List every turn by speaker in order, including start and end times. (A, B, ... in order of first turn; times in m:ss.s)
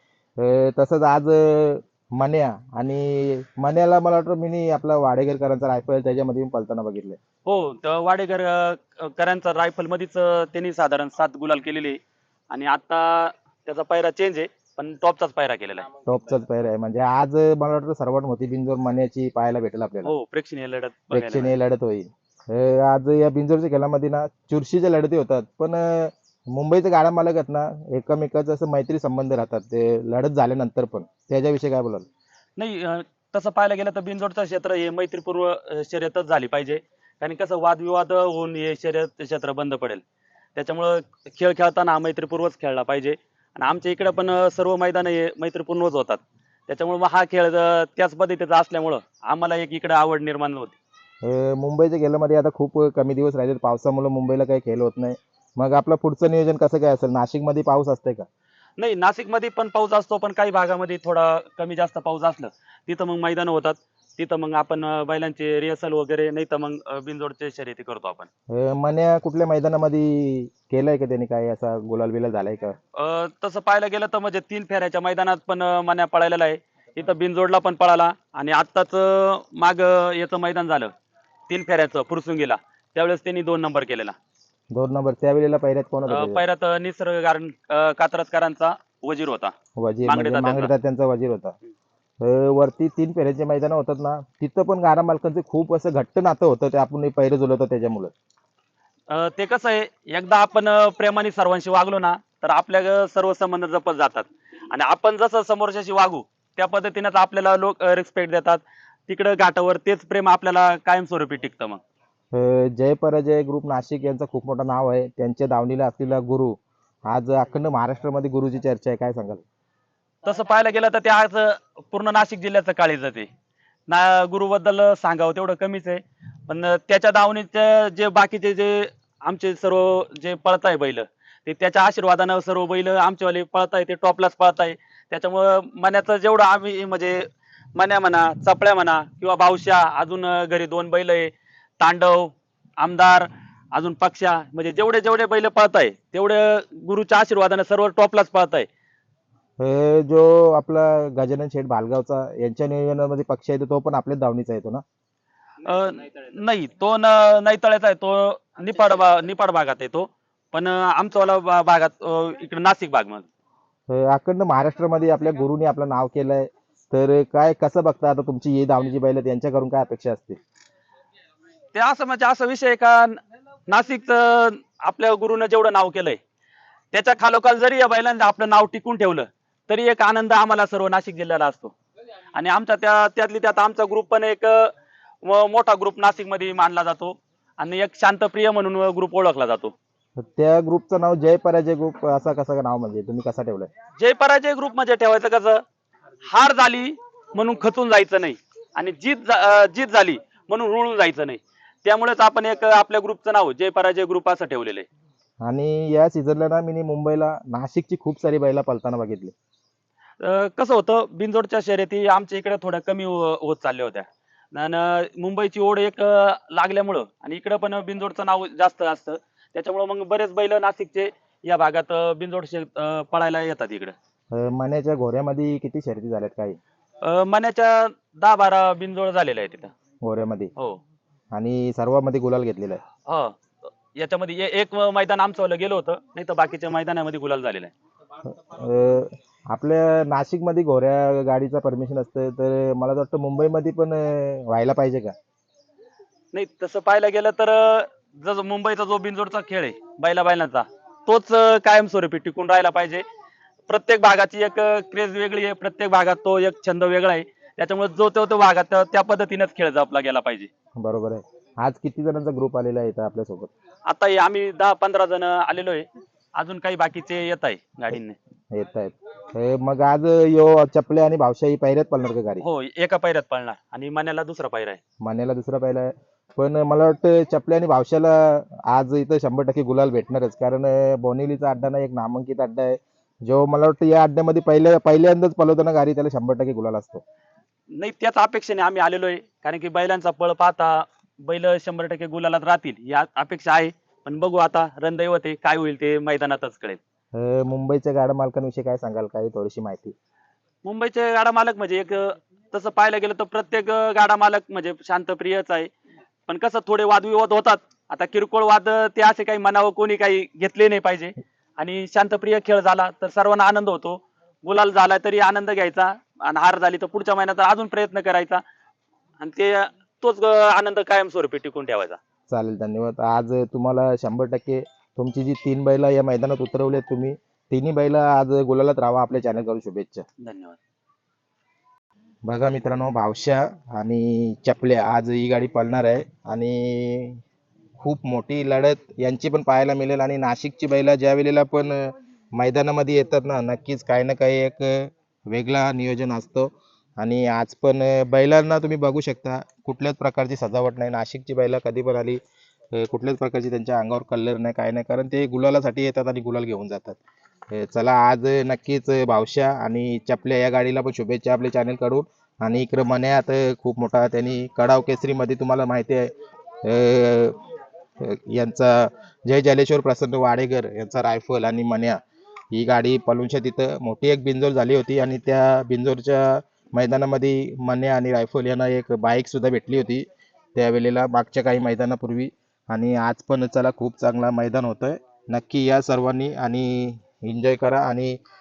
0:00.4-0:07.2 A
0:07.4-0:15.9 B
0:16.0-0:20.1 A
0:20.0-0:21.5 B
0:21.1-0:32.0 A
0:32.6-0:40.0 B
0:40.5-0:50.8 B
0:51.2-0:58.2 A
0:58.8-1:08.3 B
1:08.5-1:12.8 A
1:12.9-1:20.9 B
1:21.5-1:24.1 B
1:24.7-1:26.4 A
1:26.1-1:29.5 B
1:29.8-1:31.6 A
1:30.0-1:30.7 B
1:32.2-1:38.1 A
1:39.1-1:51.8 B
1:52.3-1:56.6 A
1:57.1-1:59.4 A
2:00.2-2:03.3 B
2:03.9-2:28.7 B
2:29.6-2:34.8 A
2:35.6-2:43.3 B
2:43.9-2:50.4 A
2:51.7-2:56.2 B
2:56.9-3:01.7 B
3:02.3-3:09.7 B
3:10.2-3:13.7 A
3:14.0-3:15.6 B
3:16.3-3:24.8 B
3:25.4-3:29.3 A
3:30.2-3:43.9 B
3:44.3-3:46.6 A
3:47.0-3:49.7 B
3:50.0-3:50.5 A
3:51.3-3:52.8 A
3:53.0-3:53.4 B
3:53.9-3:57.7 B
3:58.2-4:05.1 A
4:06.3-4:13.0 B
4:13.7-4:20.5 B
4:20.8-4:23.5 A
4:23.9-4:28.2 B
4:28.5-4:32.4 A
4:32.4-4:34.8 B
4:35.0-4:47.0 A
4:47.7-4:56.8 B
4:57.1-4:59.9 A
5:00.6-5:05.7 B
5:06.3-5:18.4 B
5:19.2-5:22.0 B
5:22.3-5:30.0 A
5:30.2-5:30.6 B
5:32.2-5:37.2 A
5:37.8-5:52.2 A
5:52.7-5:57.0 A
5:57.5-6:06.1 A
6:06.6-6:07.4 A
6:08.0-6:12.0 A
6:12.5-6:28.2 A